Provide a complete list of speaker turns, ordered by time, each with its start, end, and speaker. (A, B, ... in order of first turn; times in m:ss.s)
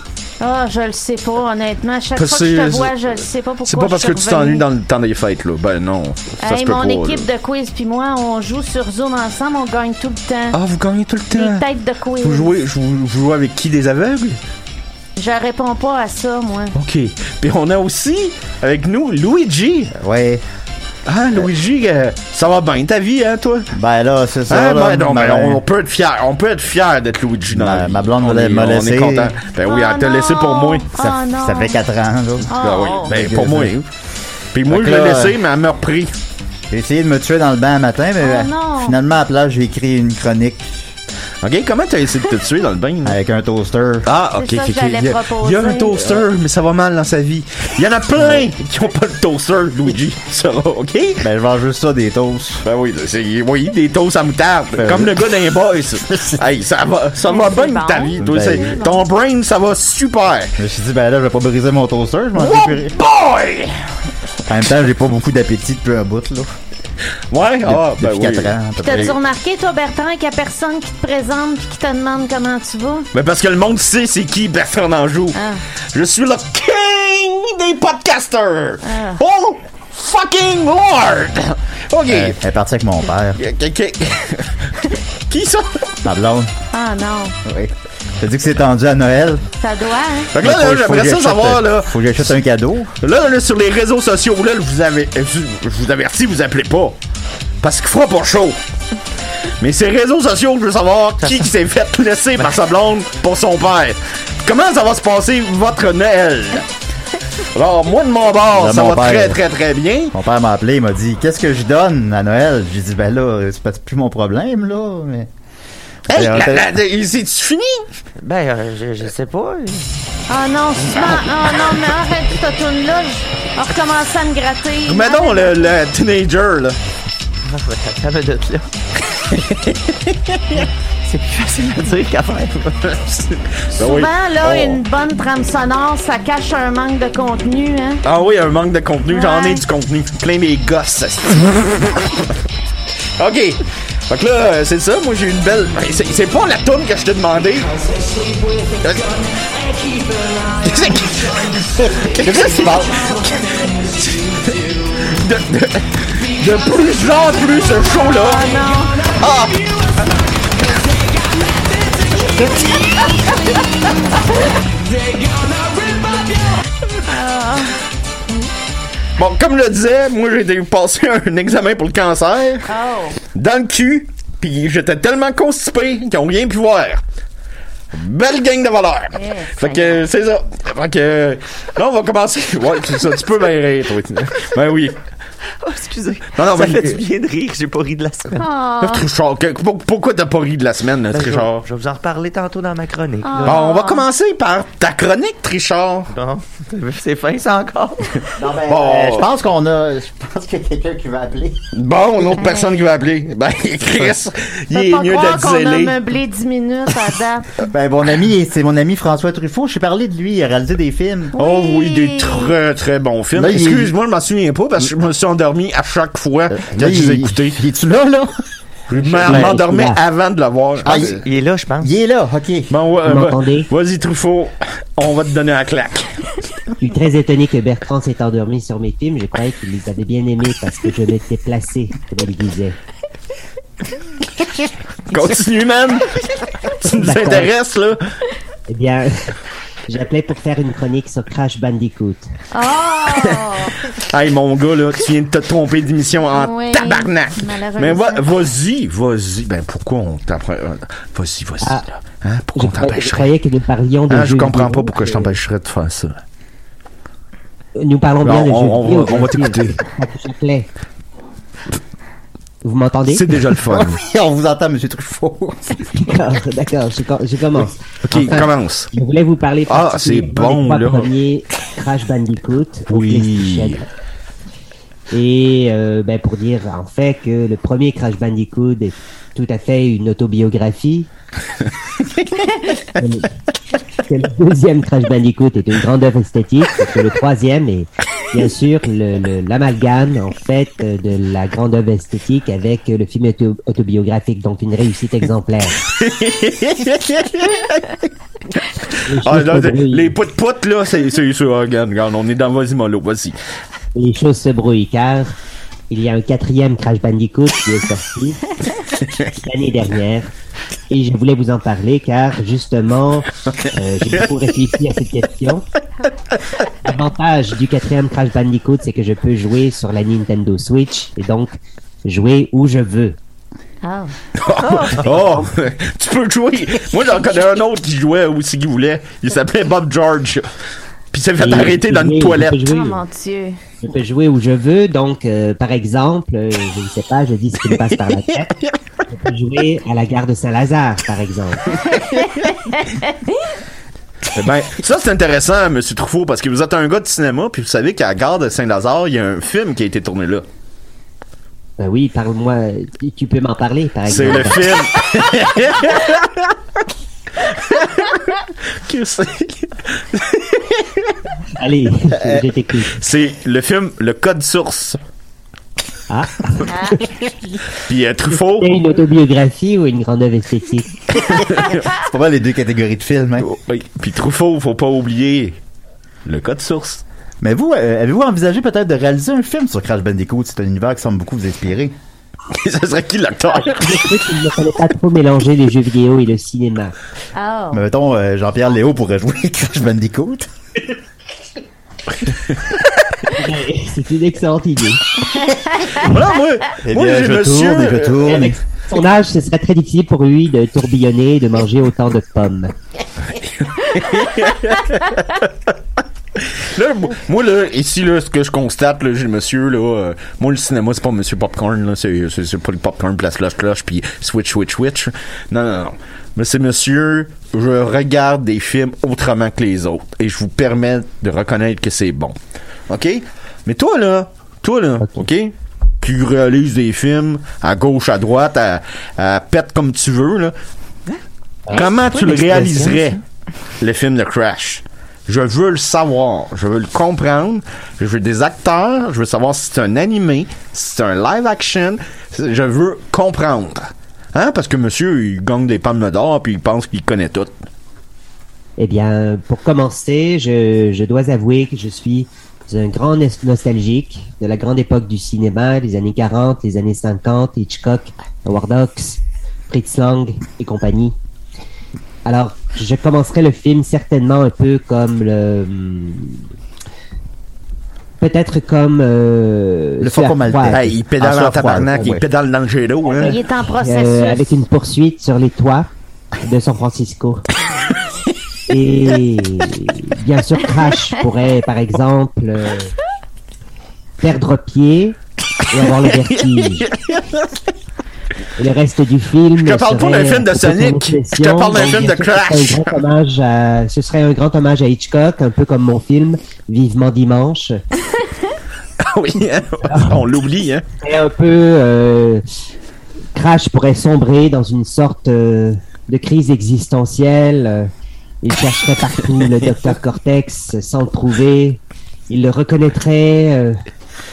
0:00.4-0:04.6 A
0:02.2-0:03.0 B
0:03.6-0:07.3 B
0:06.4-0:10.6 A
0:10.5-0:11.6 B
0:11.3-0:12.5 A
0:12.2-0:14.4 B
0:15.2-0:16.7 A
0:16.7-0:19.9 B
0:19.9-0:20.4 C
0:21.1-0:23.7 B
0:23.7-0:25.6 C
0:24.5-0:30.9 B
0:27.5-0:29.4 C
0:29.6-0:31.8 A
0:31.0-0:33.7 C
0:32.5-0:33.1 A
0:32.5-0:33.9 B
0:34.5-0:36.1 B
0:34.7-0:35.4 C
0:36.7-0:40.7 C
0:38.2-0:39.0 A
0:41.4-0:43.2 B
0:43.0-0:44.1 C
0:44.0-0:51.2 B
0:44.3-0:46.2 A
0:48.2-0:48.5 C
0:51.2-0:52.6 C
0:52.6-1:00.6 B
0:54.8-0:55.2 C
0:57.2-0:59.1 A
0:58.2-0:58.8 C
1:00.6-1:03.0 C
1:02.4-1:03.7 B
1:04.5-1:06.6 C
1:07.3-1:09.2 B
1:07.6-1:09.2 C
1:08.8-1:13.1 A
1:13.1-1:15.4 B
1:15.3-1:15.6 A
1:15.9-1:22.4 B
1:18.8-1:19.2 A
1:22.1-1:23.4 C
1:23.4-1:26.0 B
1:26.0-1:26.5 C
1:26.7-1:27.3 A
1:27.4-1:29.4 C
1:29.6-1:30.3 A
1:30.3-1:32.3 B
1:30.4-1:32.9 C
1:33.0-1:37.0 B
1:37.6-1:38.6 B
1:39.6-1:46.7 B
1:47.5-1:50.1 B
1:48.5-1:49.4 C
1:50.1-1:55.3 C
1:56.1-1:56.7 C
1:56.1-1:57.9 B
1:58.2-1:59.9 D
2:00.3-2:05.7 A
2:04.9-2:06.8 B
2:07.4-2:08.7 D
2:09.4-2:10.7 B
2:11.0-2:12.9 D
2:12.9-2:14.8 B
2:13.8-2:18.0 A
2:18.0-2:22.3 B
2:19.1-2:19.6 A
2:23.2-2:27.8 B
2:28.7-2:29.2 B
2:30.6-2:34.5 B
2:32.2-2:33.0 C
2:35.0-2:38.6 B
2:38.2-2:39.1 A
2:39.2-2:39.6 B
2:42.8-2:43.6 A
2:47.0-2:47.8 A
2:49.2-2:52.7 B
2:52.7-2:53.2 A
2:53.3-2:57.0 B
2:57.9-3:05.0 B
2:59.1-3:00.0 A
3:05.6-3:08.5 D
3:06.4-3:07.0 B
3:08.4-3:09.1 A
3:08.8-3:11.7 B
3:11.1-3:13.6 D
3:13.2-3:14.1 A
3:13.4-3:16.1 B
3:16.1-3:18.1 D
3:18.4-3:21.6 C
3:18.6-3:19.3 B
3:21.7-3:26.0 B
3:22.4-3:22.8 A
3:24.7-3:27.5 A
3:27.7-3:31.4 C
3:31.4-3:32.5 A
3:31.4-3:37.6 B
3:33.3-3:33.9 C
3:36.5-3:38.3 C
3:38.9-3:41.2 B
3:39.2-3:40.0 E
3:39.2-3:39.6 D
3:40.8-3:41.2 C
3:40.9-3:41.9 D
3:41.8-3:42.7 C
3:42.7-3:46.2 B
3:43.1-3:43.7 E
3:46.8-3:52.8 E
3:55.1-3:56.2 B
3:56.8-3:58.0 B
3:56.9-3:57.5 E
3:58.7-3:59.3 E
3:59.9-4:02.3 E
4:02.5-4:03.7 A
4:03.9-4:13.3 B
4:06.3-4:08.3 A
4:12.6-4:15.4 E
4:14.1-4:16.2 B
4:17.8-4:20.7 E
4:18.2-4:19.8 B
4:22.6-4:23.2 E
4:23.1-4:24.0 B
4:23.7-4:25.8 C
4:26.0-4:33.8 E
4:28.1-4:28.9 B
4:29.7-4:31.1 B
4:32.9-4:33.8 B
4:35.1-4:41.1 E
4:43.0-4:43.3 E
4:44.0-4:55.8 E
4:55.9-4:58.1 B
4:59.1-5:00.1 E
4:59.2-5:03.4 B
5:04.0-5:05.4 E
5:05.9-5:08.4 E
5:09.4-5:10.3 E
5:10.9-5:15.7 E
5:16.8-5:23.2 E
5:23.8-5:25.0 A
5:24.4-5:30.5 B
5:25.1-5:25.4 E
5:31.1-5:32.6 B
5:31.4-5:33.0 E
5:32.6-5:33.6 A
5:33.8-5:38.5 E
5:39.1-5:41.7 E
5:42.0-5:43.3 A
5:44.3-5:50.5 B
5:51.8-5:54.6 E
5:54.1-5:56.6 B
5:57.4-6:01.1 B
6:01.6-6:03.0 E
6:02.9-6:05.0 B
6:06.1-6:07.0 E
6:06.6-6:07.0 A
6:07.8-6:08.8 B
6:08.4-6:10.9 E
6:11.3-6:11.8 B
6:11.9-6:13.5 C
6:13.4-6:15.6 B
6:16.2-6:17.0 B
6:17.4-6:22.0 C
6:22.6-6:24.2 B
6:23.6-6:26.9 E
6:27.4-6:27.8 A
6:27.7-6:30.5 C
6:33.3-6:35.0 E
6:35.5-6:35.9 A
6:36.0-6:38.5 B
6:36.8-6:38.6 C
6:38.3-6:42.7 E
6:43.4-6:45.7 B
6:46.4-7:02.4 B
7:02.9-7:10.6 B
7:11.7-7:12.9 E
7:11.7-7:13.2 B
7:11.7-7:12.4 D
7:13.8-7:27.5 B
7:28.8-7:41.2 E
7:42.2-7:46.4 E
7:48.2-7:50.8 E
7:50.0-7:52.2 C
7:50.7-7:53.4 B
7:53.2-7:54.6 A
7:53.2-7:55.9 E
7:56.4-7:57.4 E
7:58.7-8:02.9 E
8:04.2-8:05.2 E
8:05.7-8:06.9 E
8:05.9-8:07.6 B
8:08.6-8:17.8 E
8:09.6-8:13.0 B
8:19.0-8:20.8 B
8:19.9-8:20.2 E
8:21.0-8:22.4 E
8:23.4-8:27.9 E
8:28.4-8:33.8 E